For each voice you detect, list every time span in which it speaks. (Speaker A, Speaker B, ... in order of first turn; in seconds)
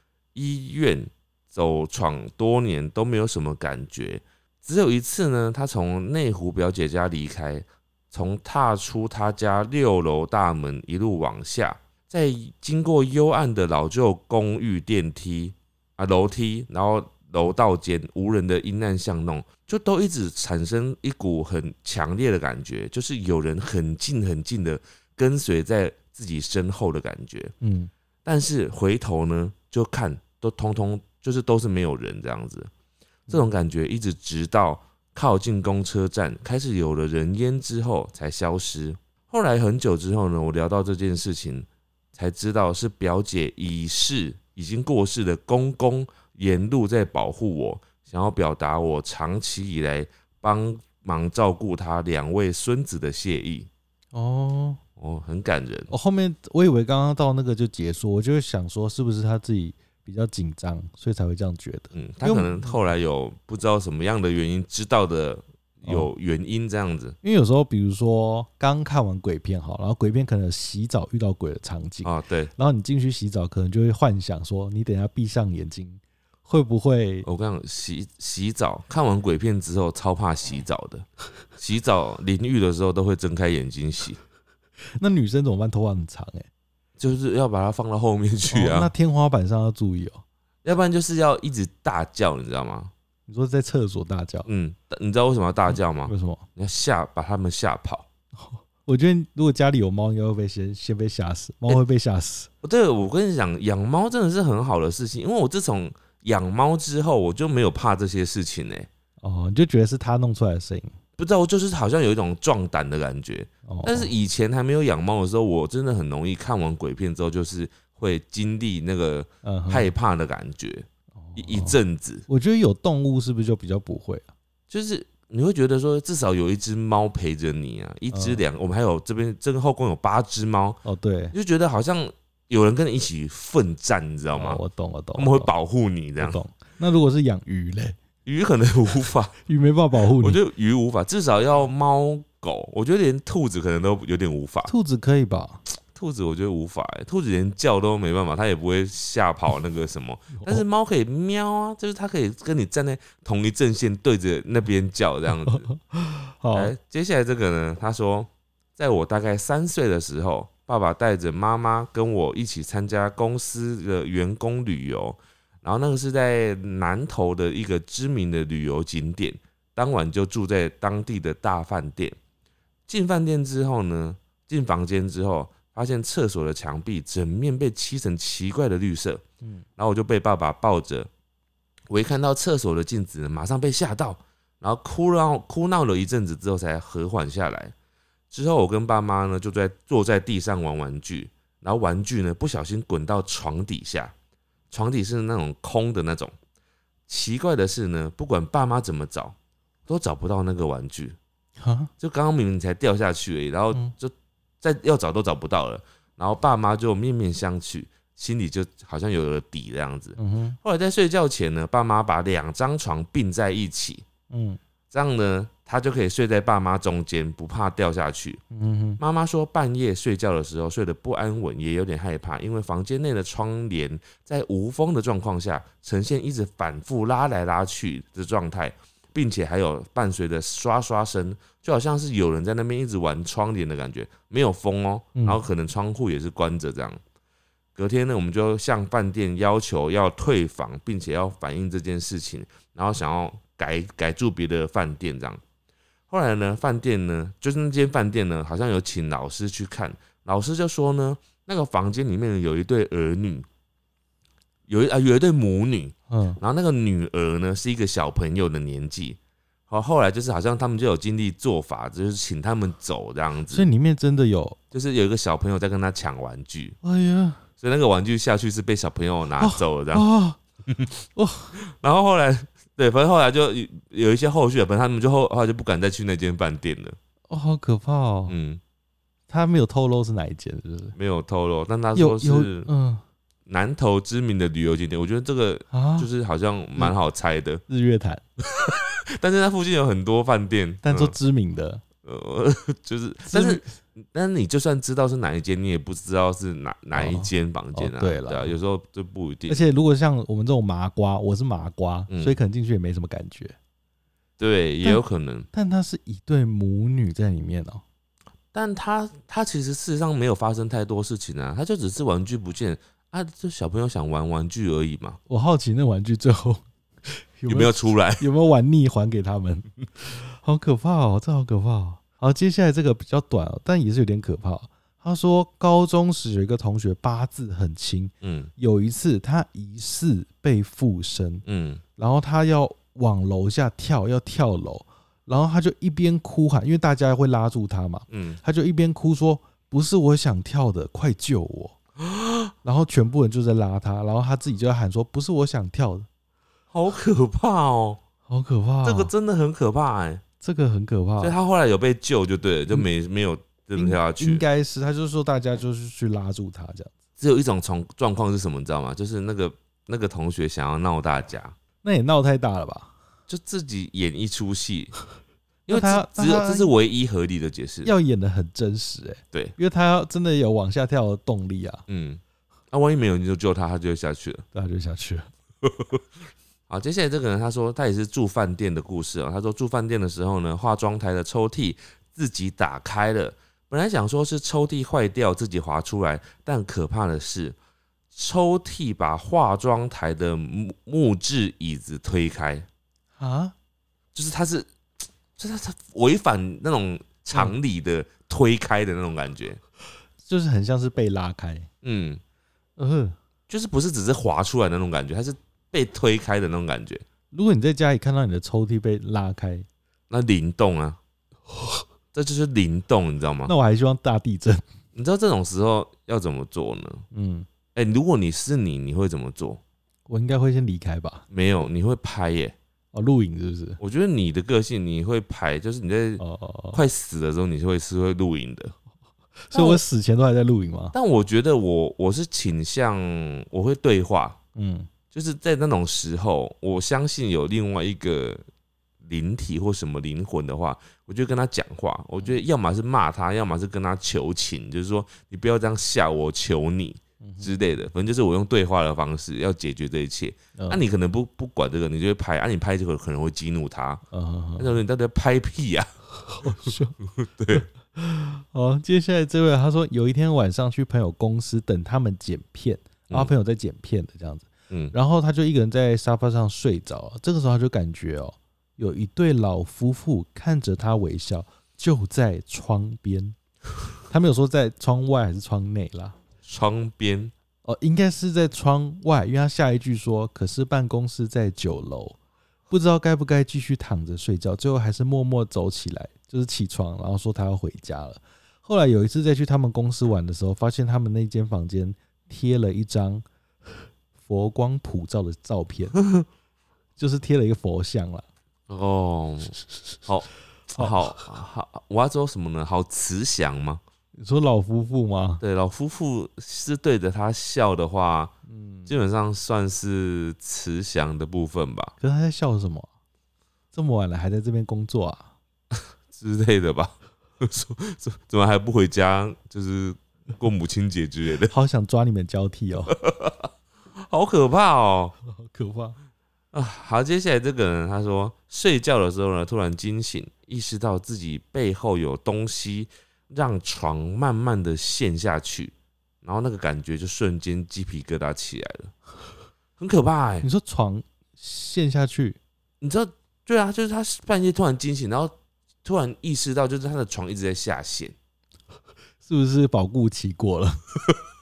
Speaker A: 0.3-27.5, 28.2-32.7, 33.3-53.7, 55.0-55.9, 61.9-67.2, 72.0-72.5, 77.2-84.2, 87.0-88.9, 90.6-92.9, 94.5-98.1, 102.6-108.9, 111.2-122.2, 124.7-130.8, 131.3-134.6, 135.2-136.4, 138.3-139.3, 140.0-144.7, 145.9-155.7, 156.5-172.2, 172.9-179.2, 179.8-181.1, 181.9-187.7, 188.3-194.1, 194.7-196.3, 197.1-199.3, 199.9-201.2, 202.0-214.1, 214.9-218.4, 219.0-237.0, 237.8-245.4, 246.1-253.5, 254.7-259.2, 259.7-263.7, 264.7-266.8, 267.6-270.1, 271.6-277.0, 278.3-278.6, 281.0-282.7, 283.5-287.6, 288.5-291.1, 292.0-299.6, 302.1-302.4, 304.4-305.5, 308.5-315.2, 317.5-318.2, 328.2-328.5, 331.5-331.8, 338.1-338.4, 342.0-342.5, 346.7-348.0, 348.8-350.2, 351.2-354.4, 357.2-361.6, 363.3-364.9, 365.7-367.9, 371.9-374.4, 375.6-376.0, 376.7-387.6, 388.1-392.7, 394.1-399.6, 401.8-402.2, 403.5-407.1, 410.1-411.0, 412.1-413.5, 414.9-417.0, 417.8-419.6, 421.3-422.6, 423.8-428.7, 429.5-429.8, 430.9-434.4, 435.1-438.4, 439.0-454.0, 454.6-455.9, 456.4-457.7, 476.4-477.3, 496.0-496.3, 498.7-503.8, 505.4-508.3, 508.9-511.9, 515.7-521.5, 522.9-525.1, 526.5-538.9, 539.8-540.5, 542.8-548.1
Speaker B: 27.6-27.9, 54.1-54.8, 55.9-62.8, 65.8-66.1, 67.2-77.3, 85.0-86.5, 88.5-90.2, 93.3-94.5, 96.1-96.5, 98.4-102.5, 109.2-111.0, 113.7-114.1, 119.4-119.9, 121.2-121.8, 122.3-124.3, 128.1-128.4, 130.8-131.3, 134.3-135.5, 136.2-138.0, 139.5-140.4, 144.7-145.6, 150.3-150.6, 155.5-156.7, 201.6-201.9, 210.2-210.6, 214.3-214.6, 218.5-219.0, 235.2-235.4, 256.1-256.4, 263.5-264.6, 266.8-267.4, 269.4-270.4, 271.1-271.6, 277.3-278.4, 279.3-281.0, 281.9-283.0, 285.7-286.1, 287.7-288.2, 290.8-291.8, 293.3-293.7, 296.9-298.6, 299.5-303.6, 304.8-307.8, 315.3-331.4, 332.0-341.8, 342.6-346.1, 348.3-349.1, 350.4-351.4, 353.7-356.9, 361.8-362.9, 365.7-366.7, 367.8-371.9, 374.5-375.3, 393.2-393.6, 400.2-401.7, 402.8-403.2, 407.3-409.7, 413.4-414.6, 417.1-417.5, 420.1-421.2, 422.9-423.8, 426.2-426.8, 429.5-431.0, 434.6-434.9, 447.2-447.6, 450.6-450.8, 454.1-454.8, 456.4-457.0, 457.5-473.4, 474.1-476.2, 477.6-482.2, 482.7-493.2, 494.2-496.0, 497.0-498.2, 504.2-505.4, 508.5-508.9, 512.0-512.9, 513.7-515.3, 521.5-523.0, 525.3-526.0, 540.4-542.4, 549.2-550.8